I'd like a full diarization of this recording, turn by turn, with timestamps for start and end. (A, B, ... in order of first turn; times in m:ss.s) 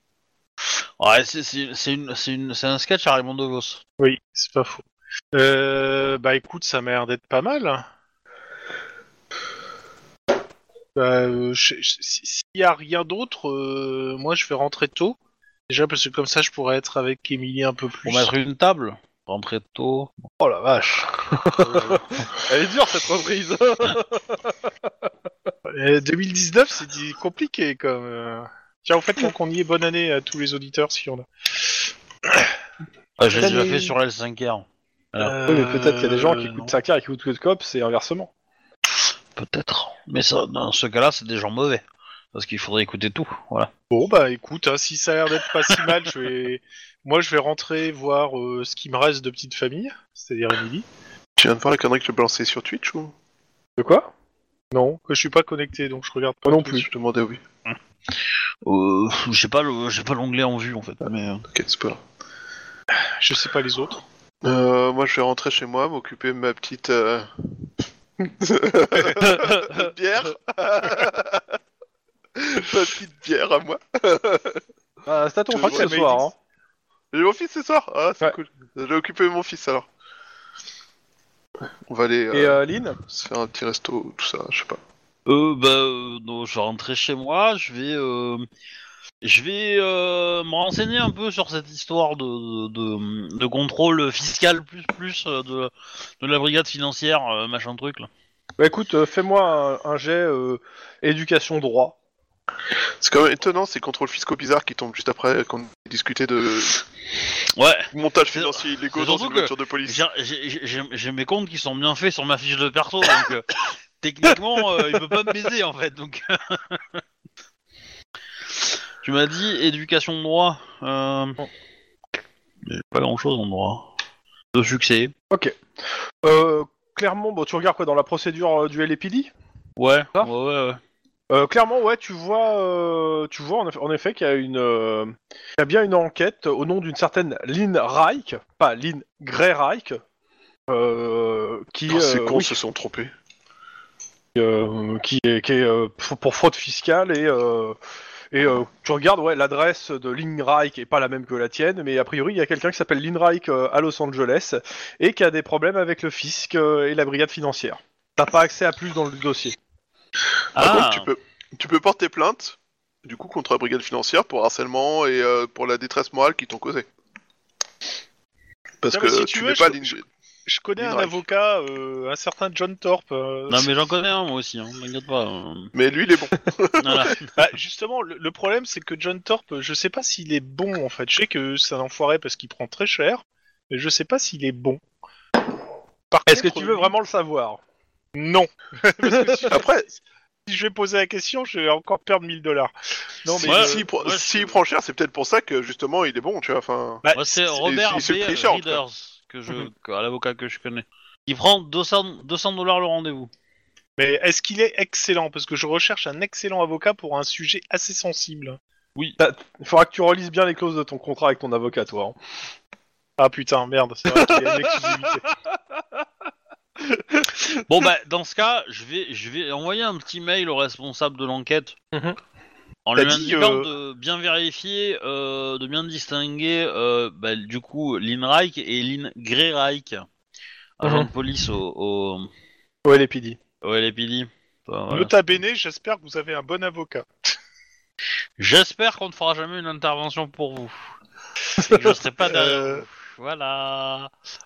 0:01.0-0:03.8 A
0:04.0-0:07.8 B
0:11.0-0:15.2 B
0:15.7-0:18.3 B
0:18.0-0:20.2 A
0:20.4-0:22.0 B
0:21.4-0:24.9 C
0:25.7-0:31.2 B
0:33.2-0:35.4 A
0:33.4-0:33.9 C
0:35.2-0:36.8 B
0:35.5-0:38.3 C
0:39.4-0:41.8 A
0:42.3-0:43.7 A
0:43.9-0:50.9 B
0:51.4-0:53.1 D
0:53.8-0:54.1 C
0:54.7-0:56.8 B
0:56.4-0:56.9 C
0:56.8-0:57.4 D
0:58.6-1:01.4 A
1:01.5-1:02.0 D
1:03.0-1:04.0 B
1:04.4-1:07.3 D
1:08.2-1:11.5 D
1:09.2-1:09.9 C
1:12.4-1:14.6 D
1:15.0-1:16.3 C
1:15.5-1:16.1 D
1:15.6-1:16.3 B
1:17.1-1:19.9 D
1:21.9-1:24.8 D
1:22.3-1:23.0 C
1:25.2-1:28.5 A
1:29.2-1:38.1 A
1:38.6-1:42.0 C
1:43.0-1:46.8 D
1:47.6-1:57.0 A
1:47.9-1:50.0 D
1:58.6-2:01.4 A
2:02.6-2:03.9 A
2:04.5-2:05.1 A
2:05.3-2:05.6 C
2:06.2-2:09.3 C
2:09.8-2:10.8 A
2:11.3-2:20.0 C
2:20.7-2:22.6 C
2:21.9-2:23.1 D
2:24.3-2:27.8 C
2:28.3-2:39.6 C
2:40.5-2:41.1 A
2:40.6-2:46.9 D
2:48.8-2:50.0 D
2:48.9-2:53.7 B
2:50.8-2:51.2 D
2:53.5-2:55.7 A
2:55.7-2:57.2 D
2:56.8-2:57.3 A
2:57.4-3:04.8 B
3:06.1-3:06.9 B
3:06.3-3:07.6 C
3:08.1-3:09.6 B
3:09.0-3:09.5 C
3:09.5-3:09.9 D
3:10.4-3:12.7 B
3:13.2-3:13.8 C
3:13.4-3:18.8 D
3:13.4-3:14.6 A
3:17.0-3:17.4 B
3:17.1-3:23.3 A
3:24.0-3:28.6 B
3:29.2-3:32.2 C
3:33.2-3:35.3 B
3:34.1-3:35.1 C
3:36.8-3:37.4 C
3:37.5-3:41.7 A
3:41.9-3:42.2 C
3:42.8-3:50.0 A
3:43.0-3:43.7 B
3:50.8-3:52.3 A
3:50.8-3:51.1 C
3:52.8-3:53.4 C
3:53.6-3:55.4 A
3:54.9-3:57.3 B
3:58.4-4:00.8 A
4:01.6-4:04.1 A
4:01.8-4:02.8 B